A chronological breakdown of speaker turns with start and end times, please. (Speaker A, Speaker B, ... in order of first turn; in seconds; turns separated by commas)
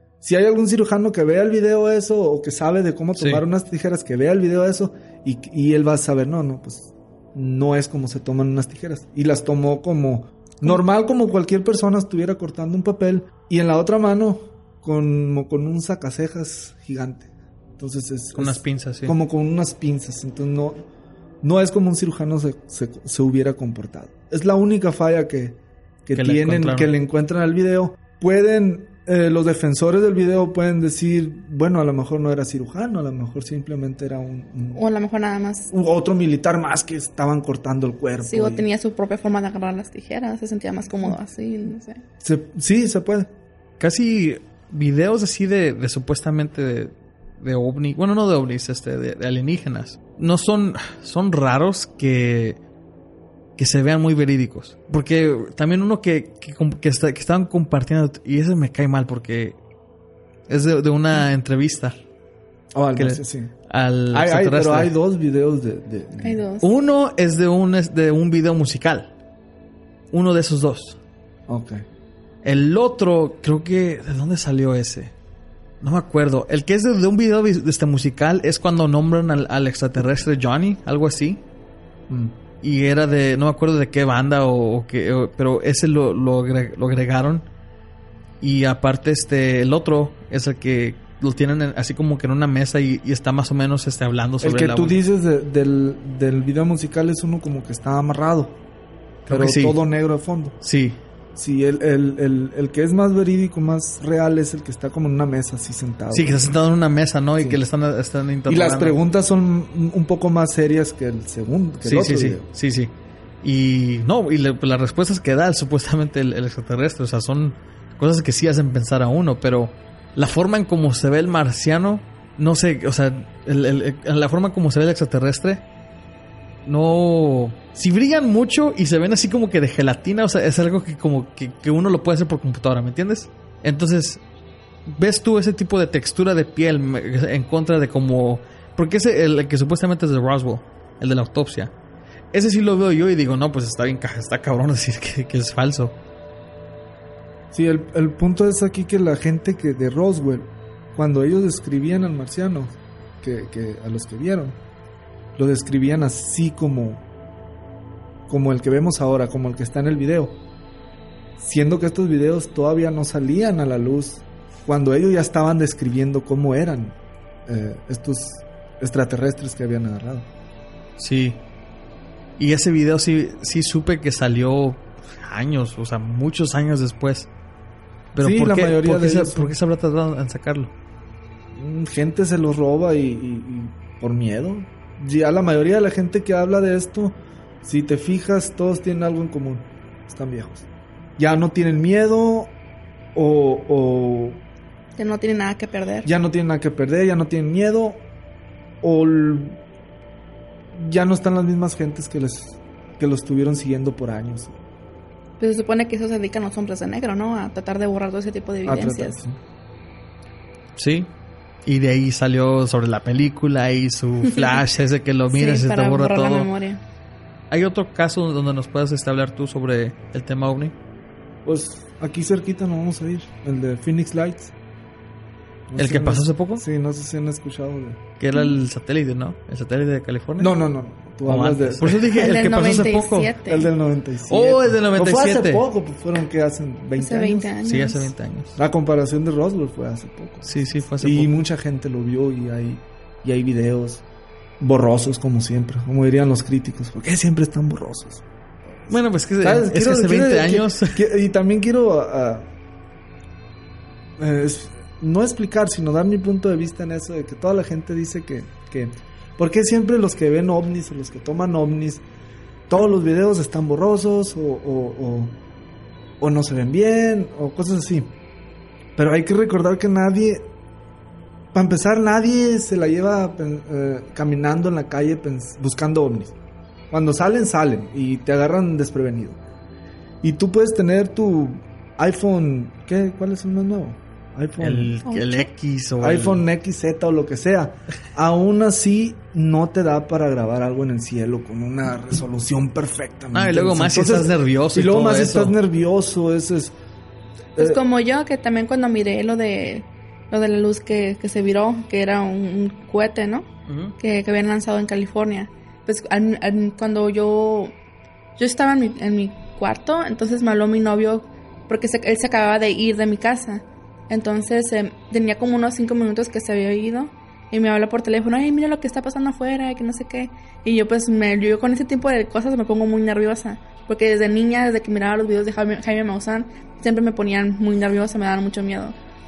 Speaker A: 0.2-20.8, Speaker B: 3.2-3.4, Speaker B: 18.4-19.2, Speaker A: 21.4-34.8, Speaker B: 26.1-26.9, Speaker C: 34.8-35.7, Speaker A: 35.7-38.7, Speaker C: 38.2-42.0, Speaker A: 42.2-43.3, Speaker B: 43.8-52.6, Speaker B: 53.6-59.6, Speaker B: 60.5-62.0, Speaker A: 62.7-63.5, Speaker B: 63.0-65.0, Speaker A: 64.1-66.4, Speaker C: 66.2-66.7, Speaker B: 66.6-69.1, Speaker B: 70.1-71.0, Speaker A: 71.5-71.8, Speaker B: 72.4-75.1, Speaker B: 75.8-81.4, Speaker A: 82.1-82.3, Speaker B: 82.6-87.5, Speaker B: 88.4-95.0, Speaker A: 94.4-98.6, Speaker B: 99.3-99.8, Speaker A: 99.3-100.6, Speaker B: 100.6-101.0, Speaker A: 101.3-106.6, Speaker B: 106.1-109.0, Speaker A: 108.5-112.5, Speaker B: 111.8-112.9, Speaker B: 113.4-125.7, Speaker B: 126.7-134.2, Speaker B: 134.9-141.7, Speaker B: 142.3-146.0, Speaker A: 147.5-154.6, Speaker A: 155.4-157.1, Speaker A: 158.3-160.4, Speaker A: 161.4-170.3, Speaker B: 171.0-171.4, Speaker B: 172.4-177.3, Speaker B: 178.1-180.7, Speaker A: 178.2-179.6, Speaker A: 181.5-190.7, Speaker A: 191.2-192.6, Speaker A: 193.1-194.4, Speaker C: 195.0-196.1, Speaker A: 196.1-198.1, Speaker A: 198.8-199.6, Speaker A: 200.7-204.6, Speaker C: 205.4-209.2, Speaker A: 208.7-209.4, Speaker B: 210.8-211.1, Speaker B: 211.6-216.5, Speaker C: 214.2-214.6, Speaker C: 215.3-216.8, Speaker B: 217.5-220.8, Speaker A: 221.4-224.5, Speaker A: 225.7-228.0, Speaker B: 225.8-226.6, Speaker B: 228.2-230.5, Speaker A: 230.4-232.2, Speaker B: 231.2-233.4, Speaker C: 232.1-233.7, Speaker A: 233.4-237.5, Speaker B: 234.3-235.7, Speaker C: 237.0-238.1, Speaker B: 237.6-238.6, Speaker A: 238.6-244.0, Speaker B: 240.4-241.3, Speaker A: 244.6-252.5, Speaker B: 248.9-251.0, Speaker A: 254.2-262.0, Speaker A: 262.7-265.4, Speaker A: 266.2-268.1, Speaker A: 269.0-270.5, Speaker A: 271.5-276.4, Speaker A: 276.9-279.4, Speaker A: 280.2-284.9, Speaker B: 284.6-286.4, Speaker C: 285.1-285.5, Speaker A: 286.0-296.8, Speaker B: 293.3-295.6, Speaker C: 297.6-303.5, Speaker B: 303.7-304.0, Speaker C: 304.0-307.8, Speaker C: 308.4-329.0